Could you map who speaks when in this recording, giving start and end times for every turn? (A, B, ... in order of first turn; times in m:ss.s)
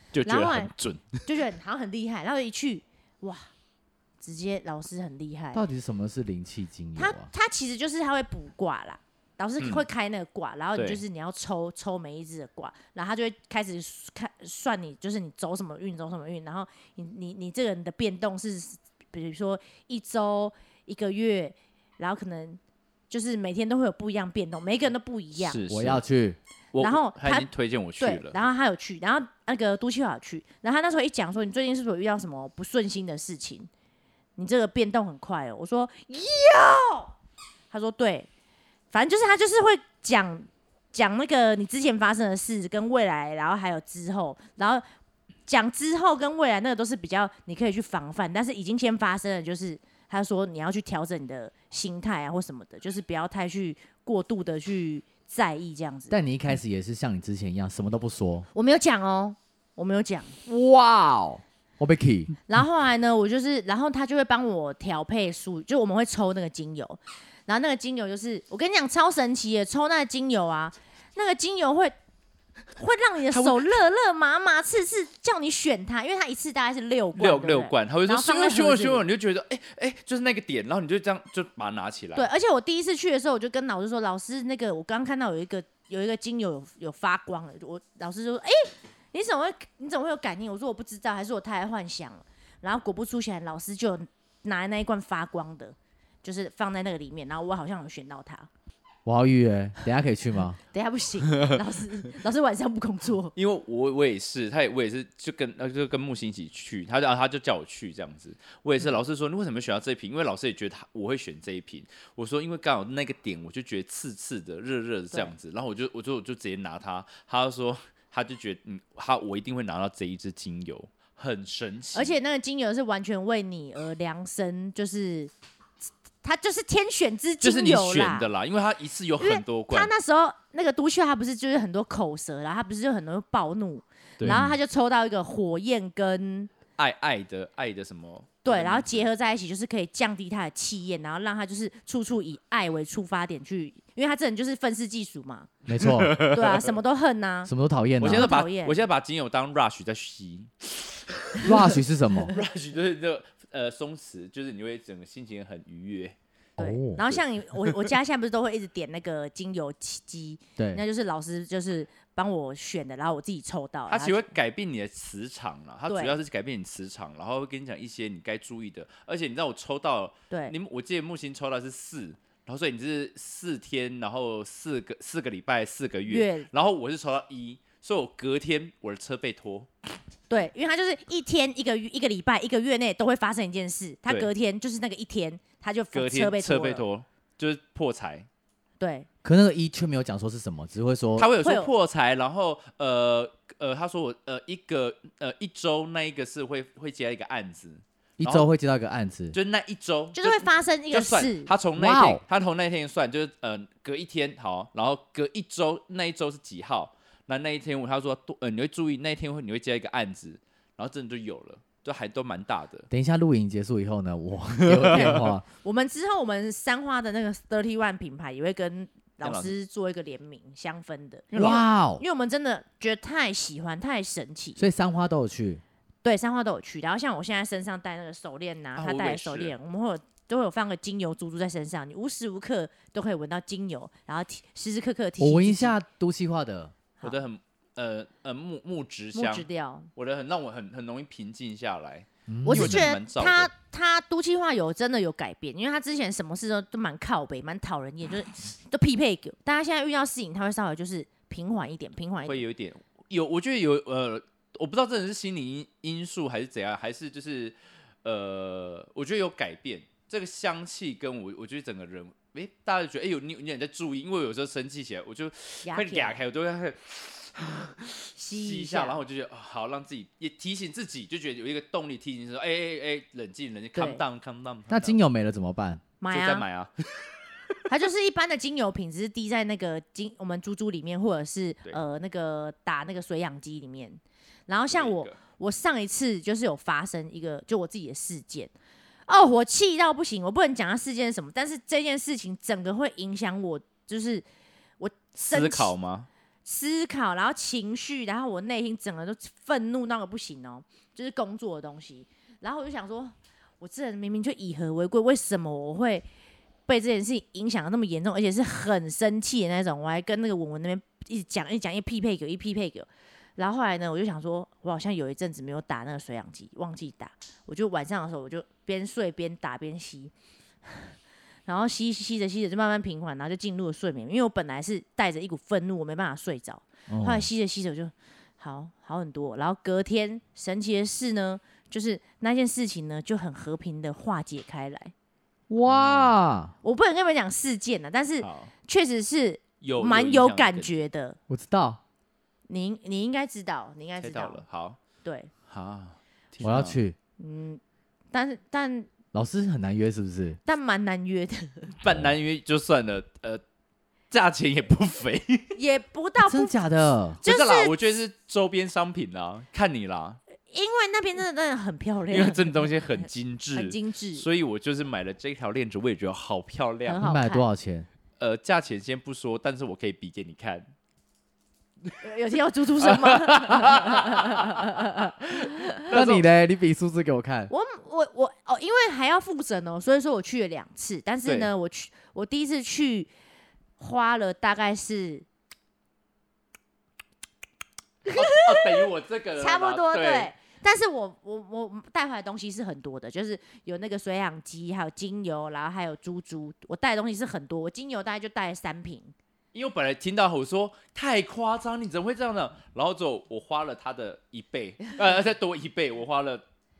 0:00.1-0:01.3 A
0:00.2-0:00.7 B
0:01.2-0:03.5 B
0:04.2-0:05.6 B
0:05.5-0:07.3 C
0:07.0-0:25.6 B
0:09.6-0:09.8 A
0:10.7-0:11.0 A
0:25.3-0:26.0 A
0:25.7-0:26.4 C
0:26.7-0:28.4 A
0:26.8-0:33.7 B
0:34.4-0:37.1 B
0:37.7-0:38.3 B
0:38.9-0:44.8 B
0:45.5-0:56.1 B
0:56.1-0:58.5 C
0:58.5-1:00.4 B
1:00.4-1:02.3 C
1:02.5-1:11.9 B
1:12.8-1:19.0 B
1:13.3-1:13.7 A
1:17.2-1:22.3 A
1:22.2-1:38.5 B
1:39.0-1:40.6 C
1:40.7-1:43.3 B
1:43.4-2:02.2 A
2:01.9-2:05.3 B
2:05.8-2:08.3 B
2:07.4-2:09.9 A
2:09.2-2:16.5 B
2:14.2-2:14.4 A
2:14.2-2:14.6 C
2:16.8-2:19.1 A
2:18.4-2:25.5 B
2:25.7-2:26.2 C
2:25.8-2:26.7 A
2:26.2-2:27.5 B
2:27.4-2:28.3 C
2:28.0-2:31.7 A
2:28.1-2:28.8 B
2:31.4-2:32.3 C
2:32.3-2:36.2 A
2:36.6-2:37.0 C
2:36.6-2:44.3 B
2:37.1-2:37.9 A
2:40.6-2:40.8 C
2:43.9-2:59.7 A
2:45.9-2:46.1 B
2:50.3-2:50.5 B
2:56.1-2:56.5 B
3:00.3-3:06.8 B
3:05.9-3:08.3 A
3:08.8-3:09.1 B
3:09.2-3:11.3 C
3:11.2-3:18.5 A
3:11.4-3:11.7 B
3:18.2-3:19.4 C
3:19.3-3:32.9 A
3:20.1-3:21.5 B
3:21.8-3:22.2 C
3:32.9-3:35.4 C
3:34.7-3:35.3 A
3:35.6-3:44.6 B
3:39.2-3:39.5 A
3:41.3-3:41.6 A
3:41.4-3:42.0 C
3:44.6-3:45.6 C
3:46.0-3:55.7 B
3:48.7-3:49.5 A
3:55.2-3:56.7 C
3:57.0-4:03.5 A
3:59.1-3:59.9 B
4:02.3-4:02.9 C
4:02.4-4:12.4 B
4:12.3-4:35.0 A
4:25.6-4:26.2 B
4:28.2-4:29.0 B
4:33.7-4:34.0 B
4:34.7-4:35.8 C
4:36.0-4:36.4 B
4:36.1-4:37.1 A
4:37.7-4:48.5 B
4:44.7-4:45.2 A
4:49.1-4:54.2 B
4:54.8-4:55.7 B
4:55.1-4:56.1 A
4:56.4-5:06.0 B
5:06.7-5:20.1 B
5:20.6-5:20.9 B
5:21.5-5:34.9 B
5:26.9-5:27.3 C
5:35.5-5:36.5 C
5:35.6-5:36.1 A
5:36.6-5:41.2 B
5:38.2-5:38.5 A
5:39.6-5:40.8 A
5:41.3-5:41.8 C
5:42.5-5:44.4 B
5:44.0-5:44.8 A
5:45.0-5:45.3 B
5:45.5-5:46.8 A
5:46.4-5:47.0 C
5:47.2-5:47.6 B
5:48.1-5:48.9 B
5:49.1-5:50.4 C
5:50.4-5:51.7 B
5:51.8-5:53.4 A
5:54.1-5:55.6 A
5:55.5-5:56.5 B
5:56.2-5:57.2 C
5:57.2-5:57.9 B
5:57.2-6:00.2 A
6:00.5-6:03.0 B
6:02.1-6:07.1 A
6:03.5-6:04.2 B
6:06.9-6:07.4 B
6:07.0-6:07.9 C
6:08.2-6:10.7 A
6:12.0-6:15.8 B
6:12.8-6:16.3 A
6:15.9-6:17.5 C
6:17.5-6:23.1 B
6:21.2-6:21.5 A
6:23.8-6:25.2 B
6:28.0-6:39.1 B
6:28.1-6:30.3 A
6:39.5-6:46.4 A